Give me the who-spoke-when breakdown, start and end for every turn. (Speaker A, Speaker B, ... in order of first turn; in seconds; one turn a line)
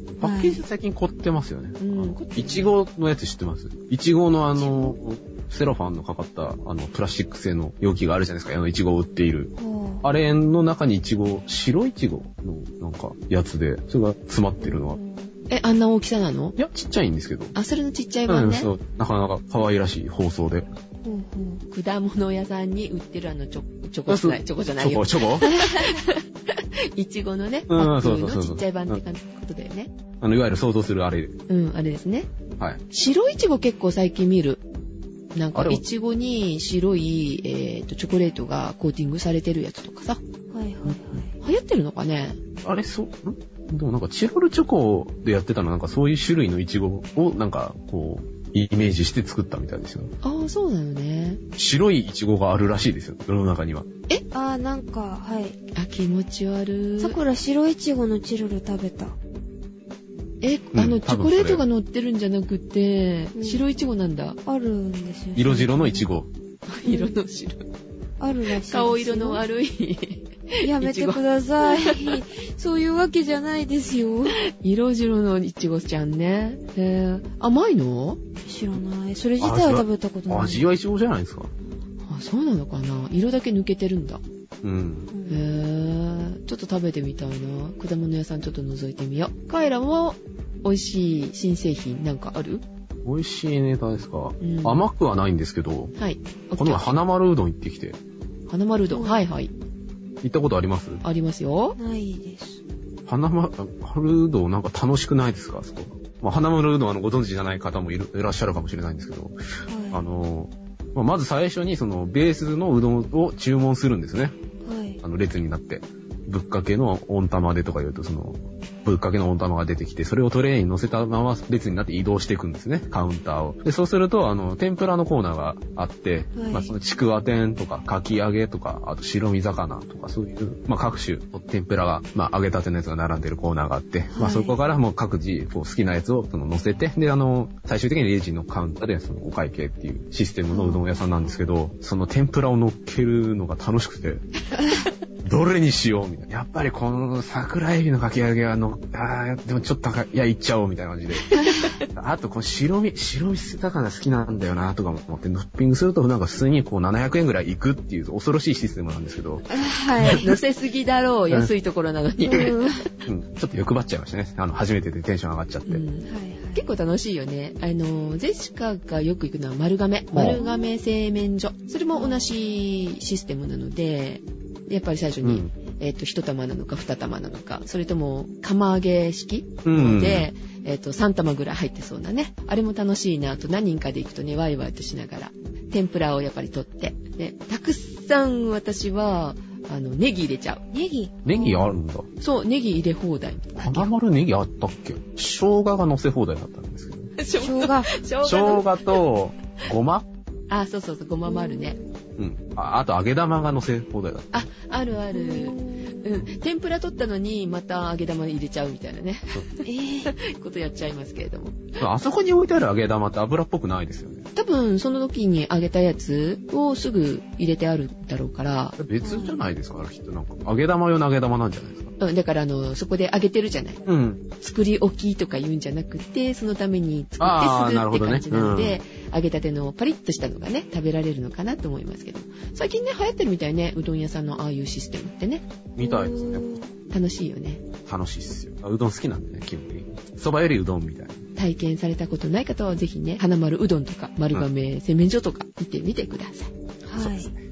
Speaker A: 0.1-9.5
Speaker B: 0.2-0.6
Speaker C: 1.8-2.8
Speaker B: 4.5-5.0
Speaker B: 9.6-10.0
Speaker A: 10.0-15.0
Speaker B: 14.6-15.3
Speaker C: 15.5-16.6
Speaker A: 16.6-17.5
Speaker C: 17.6-18.7
Speaker A: 18.3-20.7
Speaker B: 21.0-21.6
Speaker C: 21.7-29.9
Speaker A: 24.1-25.5
Speaker B: 25.5-25.9
Speaker A: 27.7-29.0
Speaker A: 30.2-31.4
Speaker C: 31.5-32.3
Speaker C: 32.9-34.6
Speaker C: 35.4-40.2
Speaker A: 35.5-35.8
Speaker B: 40.5-41.3
Speaker C: 40.9-42.4
Speaker A: 42.6-50.1
Speaker C: 50.2-51.4
Speaker A: 51.6-53.9
Speaker B: 54.3-55.6
Speaker C: 55.8-57.2
Speaker B: 57.0-59.2
Speaker C: 60.4-64.4
Speaker A: 60.8-61.6
Speaker B: 63.4-63.6
Speaker B: 64.5-66.1
Speaker A: 65.4-66.3
Speaker C: 66.7-67.7
Speaker B: 66.8-67.2
Speaker B: 68.2-69.4
Speaker C: 68.6-72.2
Speaker B: 70.6-74.4
Speaker C: 74.5-78.2
Speaker B: 78.4-80.7
Speaker A: 79.4-81.5
Speaker C: 82.1-84.2
Speaker A: 84.6-85.1
Speaker B: 85.1-85.5
Speaker C: 85.3-92.6
Speaker A: 93.0-95.9
Speaker C: 94.4-94.8
Speaker C: 96.0-96.8
Speaker A: 96.6-98.0
Speaker C: 98.5-99.5
Speaker B: 98.9-99.2
Speaker A: 100.2-101.0
Speaker C: 101.0-101.8
Speaker B: 101.8-102.6
Speaker A: 103.1-109.4
Speaker B: 109.7-110.0
Speaker A: 109.9-114.3
Speaker B: 114.6-115.0
Speaker A: 115.0-144.3
Speaker B: 126.4-126.7
Speaker B: 134.1-134.6
Speaker B: 140.5-141.4
Speaker A: 145.2-151.4
Speaker C: 151.3-151.8
Speaker A: 151.9-159.5
Speaker B: 159.5-160.3
Speaker C: 160.1-162.6
Speaker B: 162.3-162.9
Speaker A: 163.1-165.8
Speaker C: 165.7-190.6
Speaker B: 166.1-166.7
Speaker A: 170.1-170.4
Speaker B: 170.3-170.7
Speaker B: 171.9-172.3
Speaker A: 175.2-175.5
Speaker A: 179.7-180.3
Speaker B: 190.7-191.8
Speaker A: 191.2-192.1
Speaker C: 192.2-193.9
Speaker A: 193.6-197.1
Speaker C: 197.2-199.0
Speaker B: 197.4-197.9
Speaker A: 198.2-200.1
Speaker C: 200.5-201.8
Speaker B: 201.3-201.9
Speaker A: 202.2-204.3
Speaker C: 204.3-211.7
Speaker B: 205.1-206.1
Speaker B: 209.6-210.1
Speaker A: 211.8-214.3
Speaker C: 214.4-218.8
Speaker A: 218.8-221.9
Speaker B: 219.0-219.4
Speaker C: 222.0-223.8
Speaker A: 223.9-224.2
Speaker C: 224.4-235.4
Speaker A: 227.2-228.8
Speaker A: 235.8-236.6
Speaker B: 235.8-236.7
Speaker C: 236.9-237.6
Speaker A: 237.8-241.2
Speaker C: 241.4-246.5
Speaker B: 246.8-247.3
Speaker A: 247.0-247.3